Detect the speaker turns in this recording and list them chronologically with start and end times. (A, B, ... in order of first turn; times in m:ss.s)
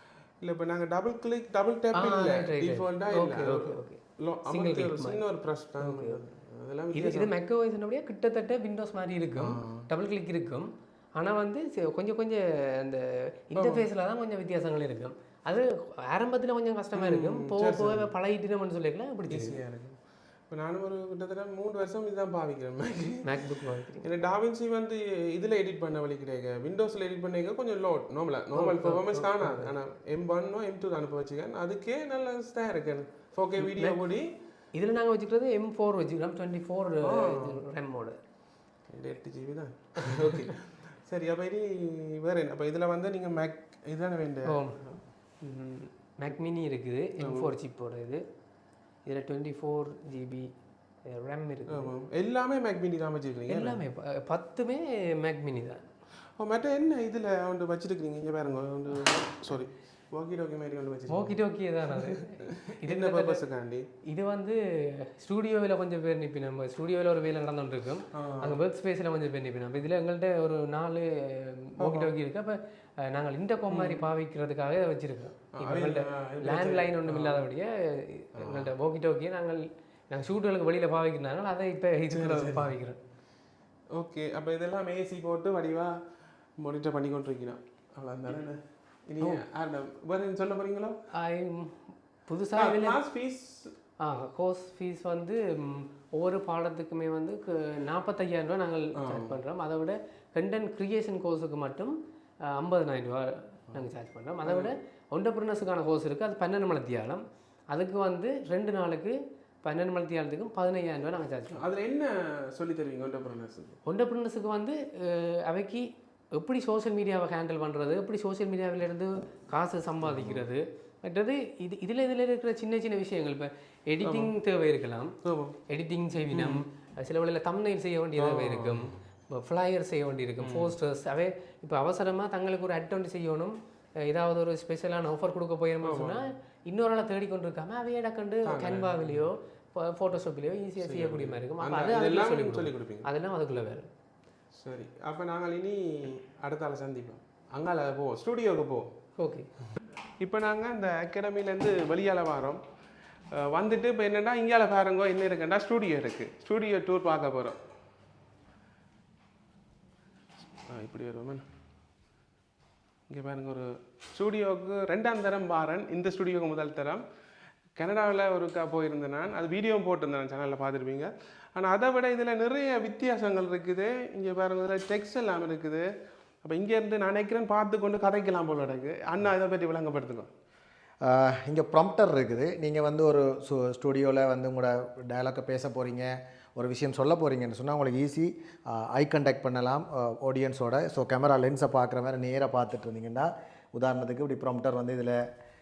0:00.4-0:07.3 A
0:01.9-0:05.2 B
0:05.8-0:06.2 B
0:06.9-0:19.6 B
0:09.4-0:09.8 A
0:13.6-0:13.8 A
0:16.9-0:18.1 A
0:19.3-0:20.0 A
0:20.5-0:23.4 A
0:23.2-0:24.0 B
0:24.0-0:34.3 A
0:28.5-0:29.7 B
0:33.6-0:34.0 B
0:34.7-0:38.2 B
0:37.0-0:37.6 A
0:38.9-0:45.0 A
0:40.0-0:40.4 B
0:44.5-0:44.8 B
0:45.4-0:48.2 B
0:47.2-0:47.5 A
0:49.0-0:50.5 B
0:51.0-0:51.9 B
0:51.7-0:53.8 A
0:53.5-0:55.8 B
0:56.4-1:01.4 A
1:01.1-1:03.4 B
1:01.9-1:03.9 A
1:04.1-1:23.0 B
1:08.1-1:08.6 A
1:11.8-1:12.1 A
1:13.7-1:14.0 A
1:15.6-1:17.4 A
1:18.4-1:18.7 A
1:22.1-1:22.7 A
1:23.9-1:26.0 A
1:26.6-1:31.0 A
1:31.1-1:33.0 B
1:32.6-1:33.7 A
1:34.0-1:51.6 B
1:39.0-1:39.3 A
1:44.4-1:44.7 A
1:51.5-1:53.8 A
1:53.9-2:05.1 B
2:00.0-2:00.4 A
2:04.0-2:04.3 A
2:05.2-2:05.6 A
2:05.7-2:23.9 B
2:06.3-2:06.6 A
2:08.2-2:09.0 A
2:10.4-2:10.7 A
2:15.8-2:16.2 A
2:18.4-2:19.2 A
2:20.8-2:23.1 A
2:24.6-2:28.9 A
2:29.2-2:29.5 B
2:30.2-2:32.6 A
2:33.3-2:37.6 A
2:40.6-2:41.4 A
2:43.1-2:47.0 A
2:47.8-2:55.9 A
2:56.4-3:00.3 A
3:01.0-3:15.2 C